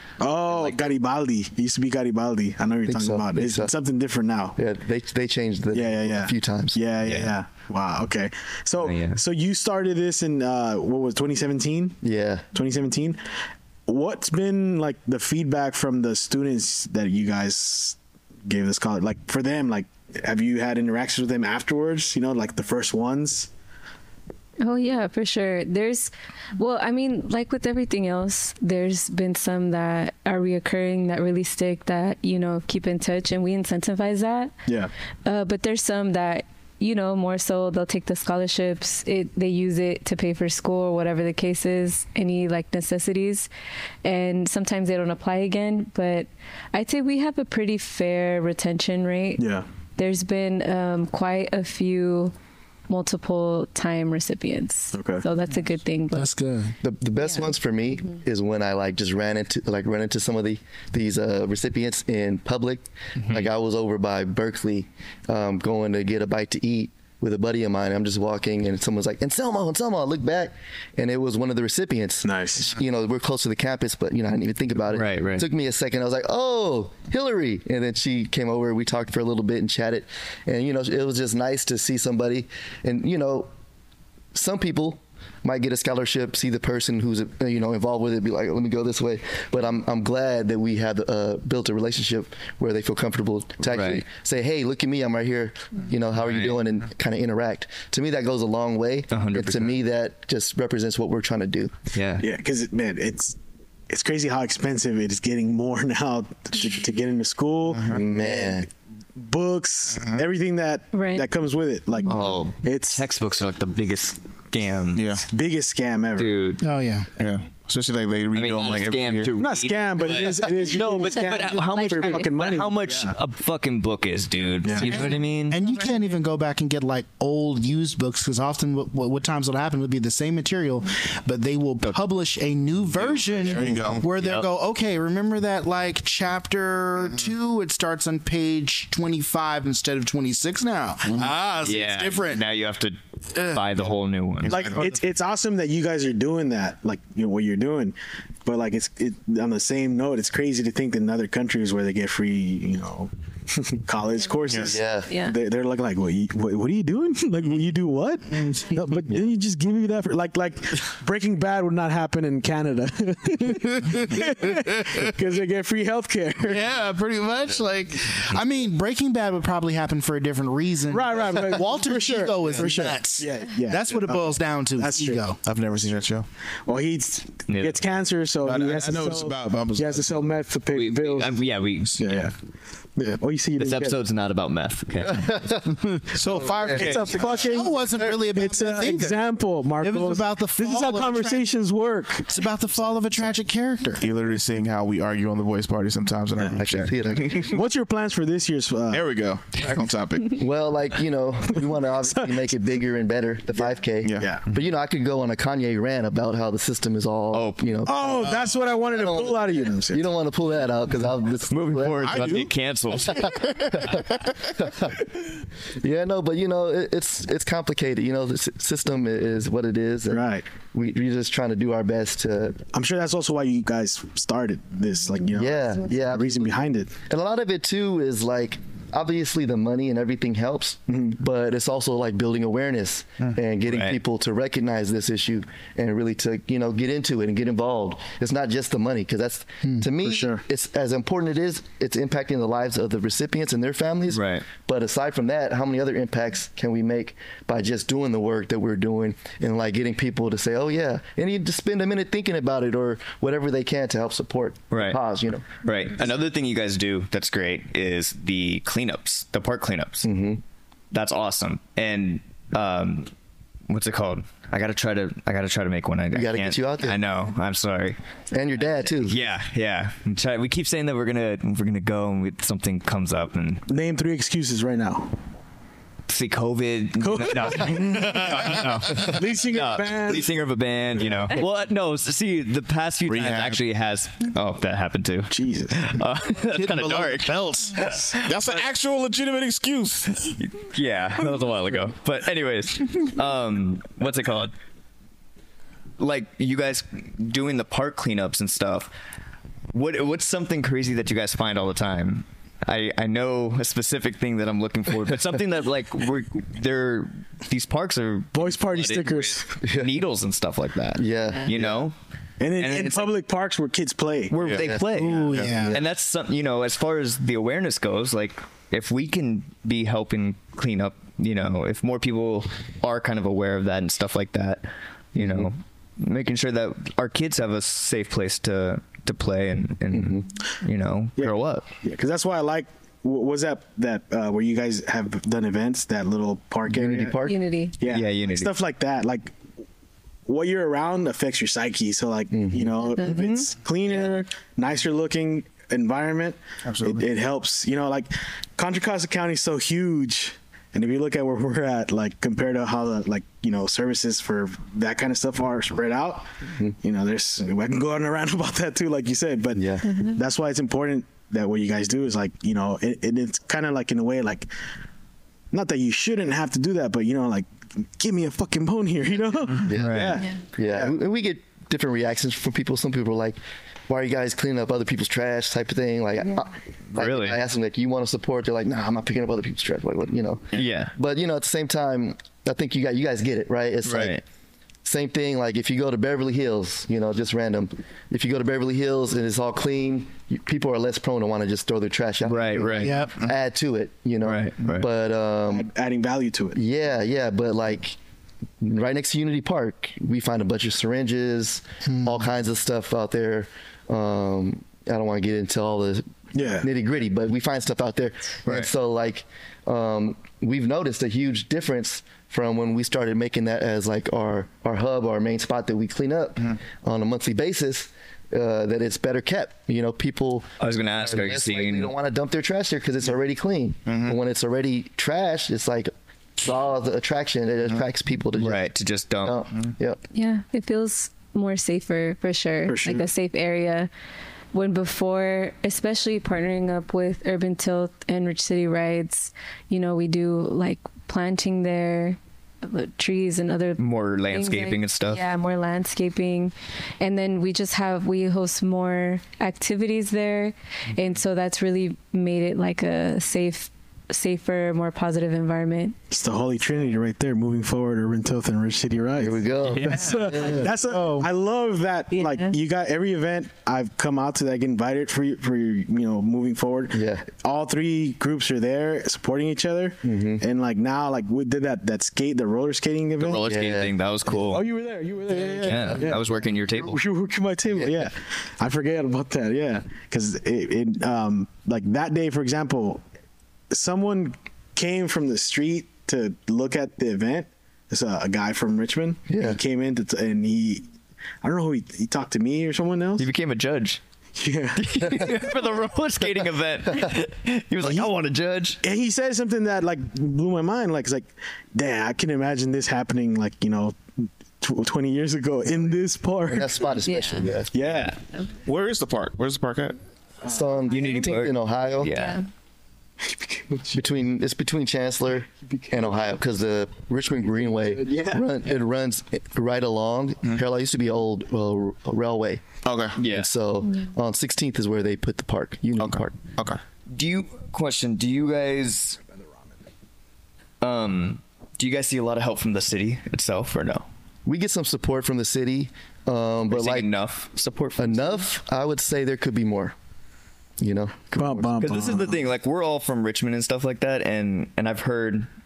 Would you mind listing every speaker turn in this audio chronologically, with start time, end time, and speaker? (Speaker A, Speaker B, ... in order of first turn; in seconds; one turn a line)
Speaker A: 0.2-4.5
Speaker B: 0.5-0.9
Speaker C: 2.9-3.7
Speaker C: 4.5-6.8
Speaker A: 5.7-12.0
Speaker B: 7.0-7.3
Speaker B: 8.8-9.2
Speaker C: 12.0-12.4
Speaker A: 12.5-13.2
Speaker A: 13.9-23.5
Speaker D: 24.6-34.5
Speaker A: 34.7-34.9
Speaker D: 35.2-43.5
Speaker D: 44.0-49.4
Speaker A: 49.4-49.6
Speaker D: 50.0-52.3
Speaker D: 52.9-56.3
Speaker A: 54.9-55.2
Speaker E: 56.1-56.7
Speaker C: 56.8-83.5
Speaker D: 57.2-57.5
Speaker A: 72.2-72.7
Speaker B: 74.9-75.5
Speaker C: 84.3-101.7
Speaker B: 93.6-94.0
Speaker B: 96.2-96.6
Speaker B: 99.1-99.7
Speaker B: 101.9-102.2
Speaker A: 102.2-103.3
Speaker A: 103.9-113.0
Speaker F: 107.7-108.0
Speaker C: 107.9-108.7
Speaker D: 110.9-111.2
Speaker C: 112.1-112.5
Speaker B: 112.9-115.1
Speaker F: 114.9-115.2
Speaker A: 115.3-116.3
Speaker B: 116.2-116.6
Speaker E: 116.6-117.1
Speaker F: 117.2-119.3
Speaker B: 118.3-125.6
Speaker A: 119.4-123.1
Speaker D: 121.2-122.2
Speaker A: 124.6-125.0
Speaker E: 125.5-142.4
Speaker F: 133.0-134.0
Speaker B: 134.2-134.4
Speaker B: 141.6-144.6
Speaker E: 143.3-143.6
Speaker F: 144.4-144.9
Speaker A: 144.5-166.6
Speaker C: 154.6-155.1
Speaker D: 155.1-155.3
Speaker E: 158.3-158.8
Speaker E: 163.5-165.1
Speaker E: 166.4-175.4
Speaker A: 170.9-175.2
Speaker C: 172.5-172.9
Speaker F: 175.4-176.2
Speaker A: 176.7-181.3
Speaker B: 177.5-177.8
Speaker F: 178.4-180.2
Speaker B: 180.7-182.2
Speaker A: 182.0-182.3
Speaker A: 183.0-184.0
Speaker B: 183.6-185.3
Speaker C: 185.1-185.7
Speaker F: 186.1-187.5
Speaker A: 186.6-192.3
Speaker E: 187.4-189.2
Speaker E: 189.8-191.5
Speaker E: 192.3-194.0
Speaker F: 194.0-197.5
Speaker C: 196.6-197.5
Speaker A: 197.5-199.1
Speaker F: 198.9-200.4
Speaker C: 200.4-212.3
Speaker A: 202.0-202.4
Speaker A: 203.5-204.4
Speaker F: 204.0-204.5
Speaker B: 207.3-207.6
Speaker A: 207.8-210.1
Speaker B: 211.5-213.2
Speaker F: 212.0-214.5
Speaker C: 213.1-215.0
Speaker C: 215.8-222.6
Speaker A: 220.1-220.4
Speaker A: 222.7-226.9
Speaker C: 225.3-255.4
Speaker A: 230.9-231.2
Speaker B: 233.7-234.0
Speaker A: 240.0-240.4
Speaker B: 244.1-244.4
Speaker B: 254.7-255.0
Speaker B: 255.6-260.1
Speaker C: 260.0-260.4
Speaker B: 260.9-263.1
Speaker B: 263.7-268.0
Speaker C: 266.1-266.9
Speaker C: 268.3-269.1
Speaker B: 269.0-273.6
Speaker A: 273.7-275.1
Speaker B: 276.1-287.3
Speaker A: 277.0-280.3
Speaker F: 283.1-283.6
Speaker A: 285.3-285.8
Speaker E: 286.5-287.8
Speaker A: 287.9-288.2
Speaker F: 288.2-290.4
Speaker B: 290.4-294.5
Speaker B: 296.0-298.9
Speaker B: 299.7-311.9
Speaker A: 308.3-309.5
Speaker C: 309.6-309.9
Speaker C: 311.0-311.5
Speaker A: 312.4-314.3
Speaker B: 312.6-313.1
Speaker B: 314.3-331.6
Speaker C: 314.5-315.8
Speaker E: 314.9-315.8
Speaker C: 325.1-325.5
Speaker C: 329.9-330.3
Speaker A: 331.2-337.2
Speaker C: 336.7-337.4
Speaker D: 337.2-337.7
Speaker A: 337.8-339.3
Speaker B: 337.9-338.5
Speaker A: 340.2-356.3
Speaker C: 342.3-342.8
Speaker D: 342.8-343.2
Speaker B: 343.1-343.4
Speaker F: 346.6-347.0
Speaker A: 356.8-364.5
Speaker C: 359.6-359.8
Speaker D: 359.8-360.2
Speaker A: 365.5-370.9
Speaker C: 369.6-384.2
Speaker B: 369.8-370.2
Speaker B: 376.9-377.4
Speaker B: 380.5-380.9
Speaker B: 383.8-384.2
Speaker C: 384.8-395.7
Speaker B: 392.2-392.9
Speaker E: 392.8-393.1
Speaker B: 394.2-394.9
Speaker A: 395.5-396.6
Speaker C: 396.5-398.0
Speaker C: 398.6-428.6
Speaker E: 401.9-402.2
Speaker A: 406.3-406.7
Speaker B: 420.6-421.9
Speaker F: 423.9-424.2
Speaker B: 428.4-429.4
Speaker C: 429.2-430.0
Speaker D: 430.1-433.9
Speaker A: 432.7-433.1
Speaker D: 434.5-455.9
Speaker B: 443.8-445.2
Speaker A: 456.1-473.4
Speaker C: 459.2-460.7
Speaker E: 460.0-461.3
Speaker D: 462.1-462.5
Speaker C: 466.9-467.3
Speaker C: 470.0-470.4
Speaker B: 473.2-474.6
Speaker C: 473.4-474.4
Speaker A: 474.5-476.2
Speaker C: 475.4-476.1
Speaker B: 475.6-477.0
Speaker A: 476.7-483.0
Speaker A: 483.7-490.9
Speaker C: 489.3-489.6
Speaker A: 491.4-493.3
Speaker B: 493.2-494.0
Speaker A: 494.4-495.1
Speaker B: 494.8-498.8
Speaker A: 498.8-506.9
Speaker C: 506.5-507.7
Speaker D: 507.0-507.5
Speaker A: 507.7-508.2
Speaker F: 508.6-510.0
Speaker C: 510.4-512.1
Speaker B: 510.9-512.4
Speaker D: 512.0-512.4
Speaker A: 513.2-514.1
Speaker C: 513.9-526.4
Speaker A: 517.8-518.4
Speaker F: 522.8-523.2
Speaker B: 523.1-523.5
Speaker F: 526.0-526.8
Speaker B: 527.1-529.2
Speaker B: 530.8-534.1
Speaker C: 534.5-537.1
Speaker B: 536.7-538.4
Speaker C: 538.0-539.9
Speaker C: 540.8-542.0
Speaker A: 541.4-542.4
Speaker B: 541.8-545.5